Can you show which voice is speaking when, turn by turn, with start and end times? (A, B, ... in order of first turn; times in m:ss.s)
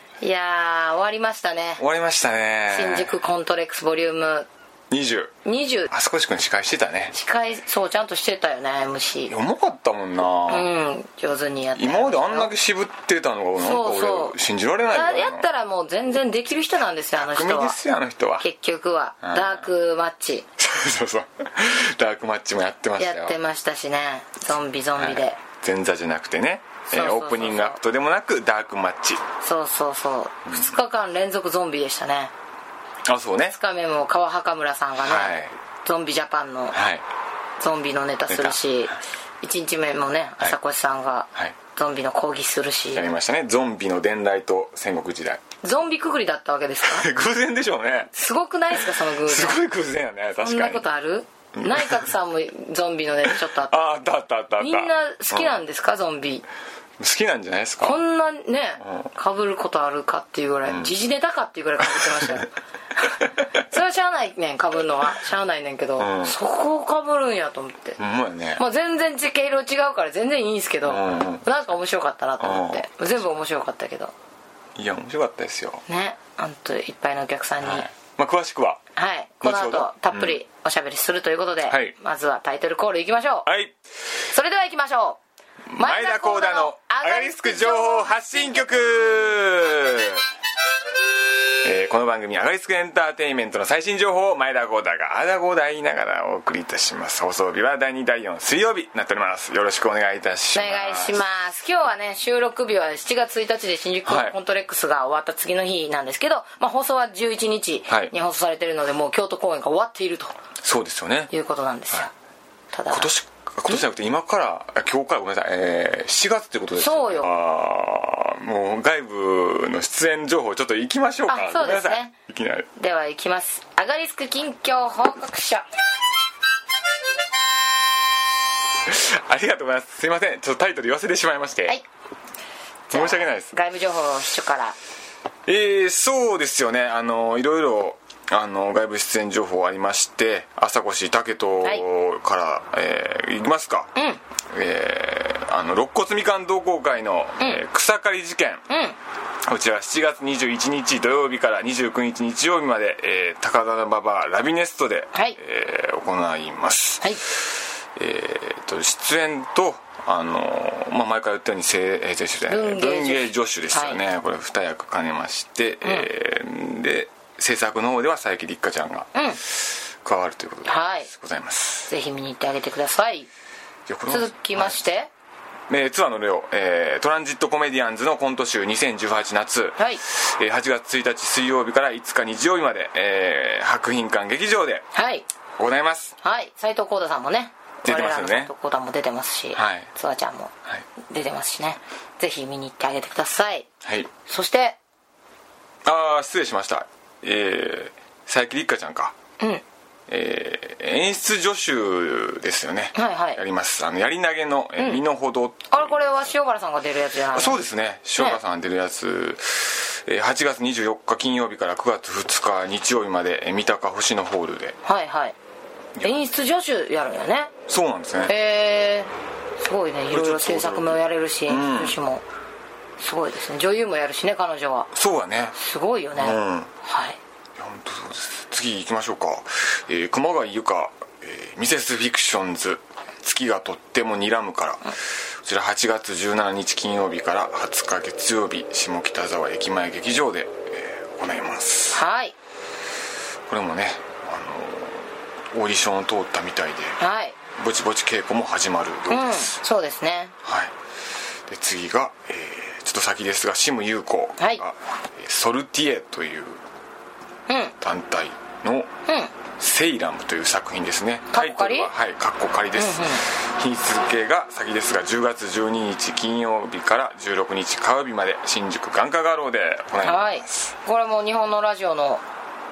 0:00.2-0:01.8 A
0:01.8-0:03.1 B
0:02.7-0:04.5 A
0:04.9-0:05.3 B
0:05.4-0:05.9 A
0:05.9-0:07.1 B
0:07.1-0:09.3 A
0:09.3-0:10.7 B
0:10.5-0:12.5 A
0:11.7-0:15.4 B
0:13.6-0:14.4 A
0:14.9-0:17.8 A
0:17.2-0:18.4 B
0:18.4-0:20.4 A
0:19.2-0:19.6 B
0:20.6-0:23.4 B
0:23.0-0:25.4 A
0:25.0-0:29.2 B
0:26.9-0:27.8 A
0:29.4-0:32.3 A
0:30.5-0:30.7 B
0:33.0-0:33.6 B
0:33.5-0:36.8 A
0:35.0-0:35.6 B
0:36.7-0:37.0 B
0:37.6-0:43.0 A
0:38.3-0:38.6 B
0:42.9-0:45.4 B
0:45.6-0:47.1 A
0:46.8-0:48.1 B
0:48.1-0:49.6 A
0:48.7-0:50.8 B
0:50.4-0:53.8 A
0:51.6-0:52.1 B
0:53.2-0:55.5 B
0:54.6-0:56.4 A
0:57.0-0:58.0 B
0:57.8-1:08.0 A
0:58.8-0:59.1 B
1:00.6-1:00.9 B
1:02.0-1:02.4 B
1:06.0-1:06.4 B
1:08.0-1:08.6 B
1:08.6-1:14.1 A
1:10.8-1:11.5 B
1:12.4-1:12.8 B
1:14.8-1:15.8 B
1:15.9-1:17.9 A
1:17.6-1:18.8 B
1:19.0-1:23.5 A
1:19.4-1:20.4 B
1:21.6-1:21.9 B
1:23.4-1:23.7 B
1:24.3-1:25.2 A
1:25.7-1:30.3 B
1:25.8-1:29.0 A
1:31.6-1:41.2 B
1:40.5-1:50.3 A
1:44.0-1:44.3 B
1:50.6-1:51.3 B
1:51.3-1:52.1 A
1:52.7-1:53.1 A
1:52.9-2:02.7 B
1:56.8-1:57.3 A
2:01.3-2:02.1 A
2:02.8-2:05.6 A
2:08.8-2:11.8 B
2:12.9-2:13.5 B
2:12.9-2:14.8 A
2:15.4-2:23.9 B
2:24.0-2:24.2 A
2:24.5-2:28.6 B
2:28.7-2:29.0 A
2:29.4-2:51.9 B
2:42.5-2:44.0 A
2:45.8-2:46.1 A
2:49.1-2:49.4 A
2:50.6-2:51.1 A
2:51.9-2:53.3 A
2:53.9-2:54.8 B
2:54.1-2:55.1 A
2:55.7-3:04.9 B
3:04.9-3:05.2 A
3:05.6-3:06.1 B
3:06.2-3:13.7 A
3:07.8-3:08.5 B
3:09.5-3:09.9 B
3:13.8-3:14.1 B
3:14.2-3:14.8 A
3:15.8-3:19.1 B
3:20.1-3:26.3 B
3:23.0-3:23.4 A
3:24.8-3:25.0 A
3:25.7-3:27.6 A
3:27.3-3:34.8 B
3:34.8-3:35.4 A
3:36.0-3:36.3 B
3:36.0-3:37.5 A
3:37.7-3:38.3 B
3:38.2-3:42.2 A
3:40.1-3:42.0 B
3:43.0-3:44.9 A
3:44.9-3:45.6 B
3:45.6-3:47.2 A
3:46.2-3:46.7 B
3:47.6-4:02.0 B
4:01.9-4:02.3 A
4:03.5-4:07.0 B
4:07.0-4:07.4 A
4:07.5-4:09.5 B
4:09.1-4:10.3 A
4:10.4-4:10.7 B
4:11.5-4:16.6 B
4:17.5-4:17.7 A
4:17.8-4:18.9 B
4:19.1-4:19.3 A
4:19.6-4:30.7 B
4:21.3-4:21.9 A
4:22.8-4:23.2 A
4:30.0-4:32.2 A